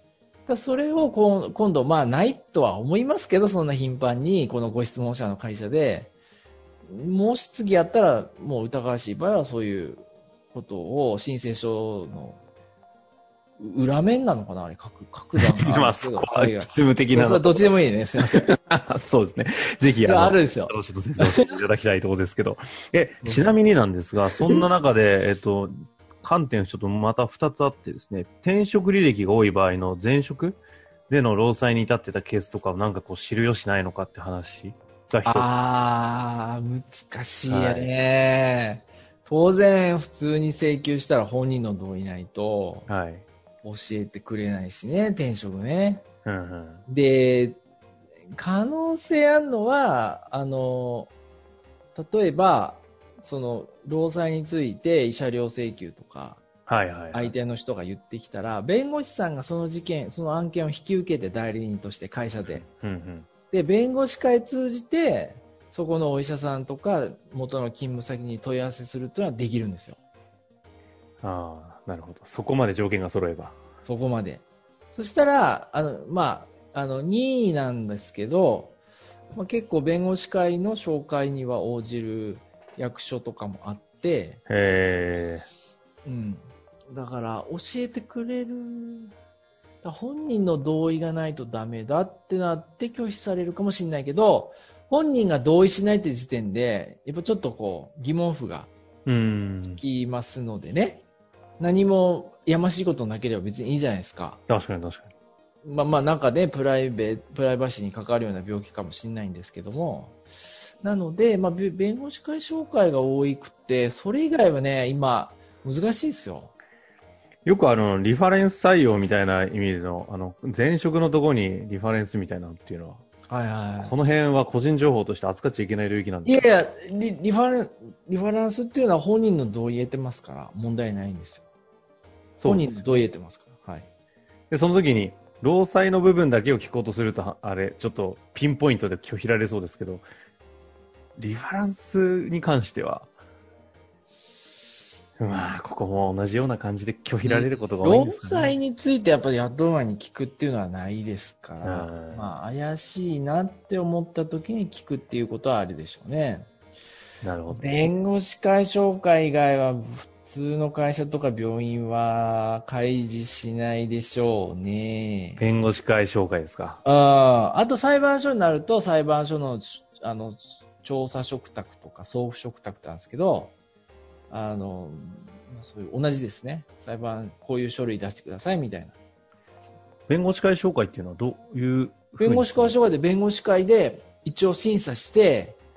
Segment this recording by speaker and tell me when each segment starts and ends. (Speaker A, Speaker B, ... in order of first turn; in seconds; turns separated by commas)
Speaker A: 0.5-6.1, Speaker A: 6.8-12.4, Speaker A: 13.6-18.5, Speaker B: 15.3-17.6, Speaker B: 18.2-35.5, Speaker A: 20.0-21.6, Speaker A: 23.2-23.5, Speaker A: 35.2-42.9, Speaker B: 37.5-37.9, Speaker B: 42.9-43.2, Speaker A: 43.6-46.0, Speaker B: 46.2-46.8, Speaker A: 46.9-47.6, Speaker A: 48.3-51.1, Speaker A: 51.9-56.4, Speaker B: 56.7-57.3, Speaker A: 57.1-62.6, Speaker B: 62.5-63.3, Speaker A: 63.5-70.0, Speaker B: 71.2-73.5, Speaker A: 73.8-78.8, Speaker A: 79.3-84.4, Speaker B: 84.5-85.5, Speaker A: 86.0-89.1, Speaker A: 89.8-98.7, Speaker B: 99.0-99.8, Speaker A: 99.8-101.0, Speaker A: 101.6-104.4, Speaker B: 104.5-105.1, Speaker A: 105.6-116.5, Speaker B: 117.4-123.0, Speaker A: 123.3-123.9, Speaker B: 123.8-126.5, Speaker A: 126.2-131.4, Speaker B: 132.4-133.0, Speaker A: 132.4-133.9, Speaker B: 134.5-140.1, Speaker B: 141.2-143.1, Speaker B: 145.2-148.6, Speaker A: 147.2-156.5, Speaker B: 151.6-152.3, Speaker B: 157.2-157.9, Speaker A: 157.5-165.4, Speaker B: 165.4-166.8, Speaker A: 166.8-173.5, Speaker A: 174.3-178.9, Speaker B: 180.1-182.7, Speaker A: 182.2-185.6